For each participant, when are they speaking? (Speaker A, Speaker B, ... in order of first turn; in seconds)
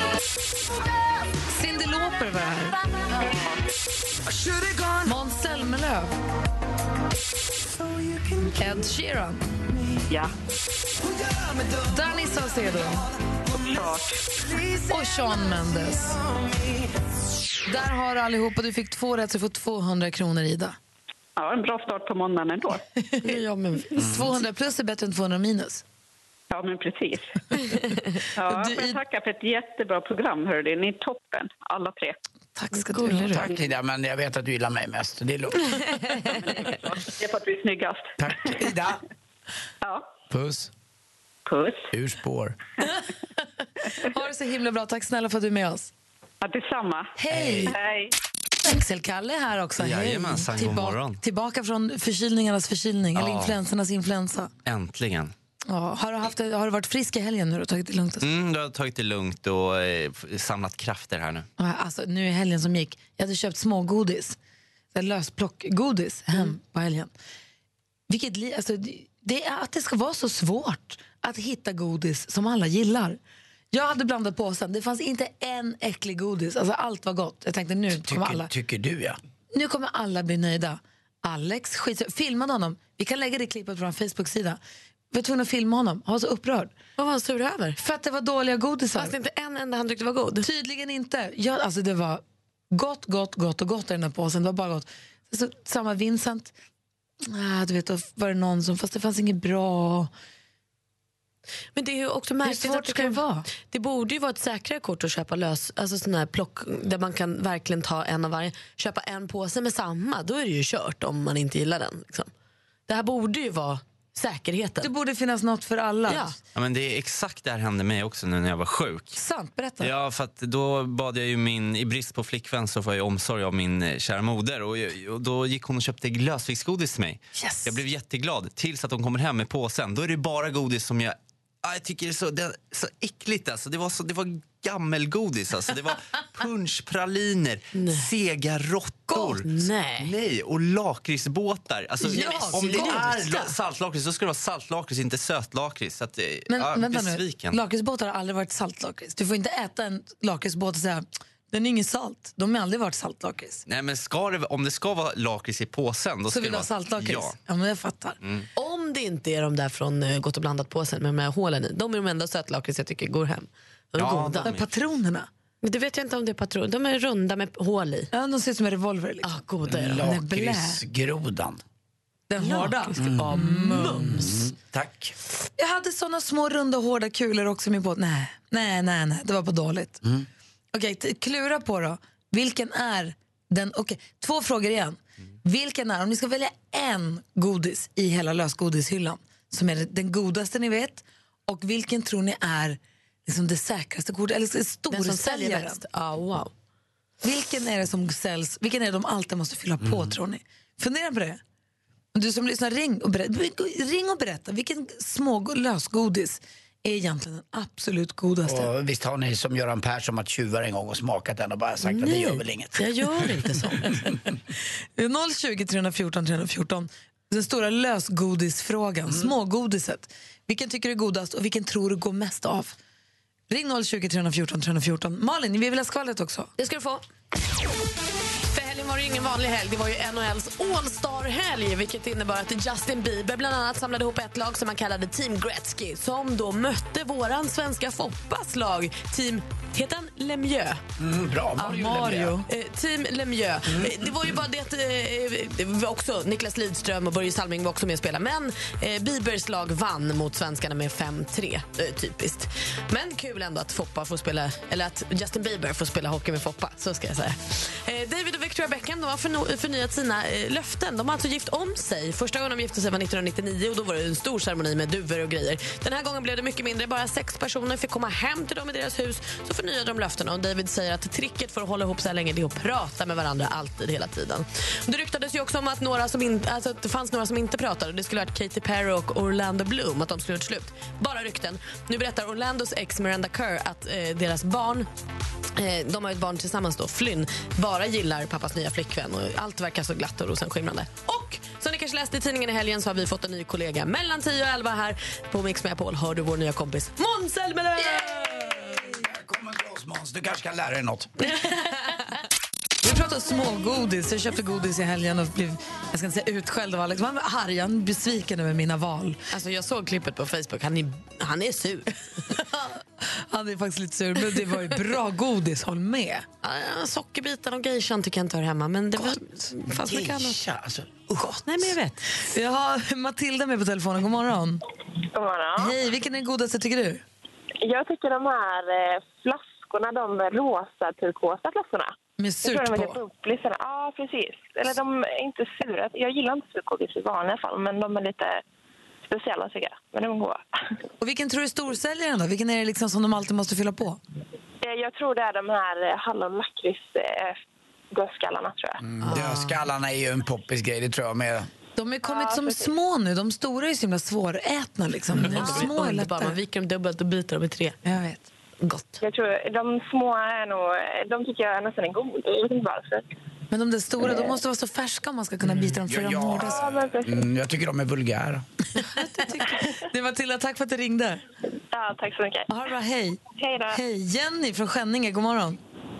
Speaker A: 1.5-2.8, 5.0-6.1, 8.4-9.4, 11.8-13.1, 14.8-16.2, 17.7-20.8, 23.0-23.4, 23.9-25.8, 28.5-29.0, 32.5-33.4, 44.0-45.9, 47.2-47.8, 48.6-54.5, 55.7-58.3, 61.6-64.4, 64.9-67.1, 68.1-73.2, 73.7-78.5, 79.5-84.6, 85.1-86.7, 87.8-89.1, 90.4-96.5, 97.2-100.1, 102.4-103.5, 114.8-116.3, 119.1-119.9, 127.3-127.8, 142.0-143.4, 146.5-153.6, 156.3-158.2, 164.4-165.3, 168.1-169.4, 169.9-170.8, 172.3-174.3, 175.6-180.0, 180.7-195.8, 197.2-201.4, 202.1-208.7, 214.9-222.7, 223.5-226.5, 241.6-242.5, 302.8-309.2, 312.3-316.2, 322.2-324.6, 325.6-327.0, 332.2-333.0, 341.0-344.0, 351.8-356.4, 357.8-358.3, 363.5-366.7, 368.8-371.2, 372.5-375.6
Speaker B: 3.3-3.5, 13.5-14.2, 21.4-22.8, 26.5-27.4, 28.3-32.2, 36.2-38.5, 39.8-40.1, 41.5-41.9, 46.4-47.1, 47.6-48.1
Speaker C: 23.2-23.9, 32.7-33.4, 87.0-87.8, 88.9-90.5, 101.7-112.3, 112.9-114.9, 116.1-116.3, 137.7-138.1, 139.1-140.1, 142.1-143.5, 158.6-164.5, 165.6-168.1, 169.2-170.1, 172.4-174.3, 194.9-196.5, 211.8-214.1, 226.6-227.0, 228.5-240.8, 242.4-284.9, 285.5-298.6, 309.3-312.2, 316.4-320.4, 321.4-322.1, 349.0-349.6, 355.2-357.8, 358.6-358.9
Speaker D: 24.0-24.3, 33.3-35.8, 38.2-39.0, 40.3-40.7, 41.9-42.5, 47.3-47.8, 78.0-79.2, 169.7-171.6, 173.0-173.3, 173.9-175.2, 199.8-200.1, 208.4-212.9, 219.1-219.3, 241.0-242.4, 243.7-244.1, 298.2-301.1, 319.7-321.6, 348.8-351.5, 365.8-368.4
Speaker E: 49.8-51.2, 53.1-53.6, 54.6-55.3, 58.2-61.5, 116.5-119.2, 119.8-147.6, 153.7-157.4, 158.2-158.5, 164.0-164.7
Speaker F: 325.1-325.7, 327.6-338.4, 339.1-340.4, 344.6-347.4, 347.9-348.8, 352.0-352.7, 359.0-363.0, 366.4-367.2, 371.7-372.5, 373.3-373.8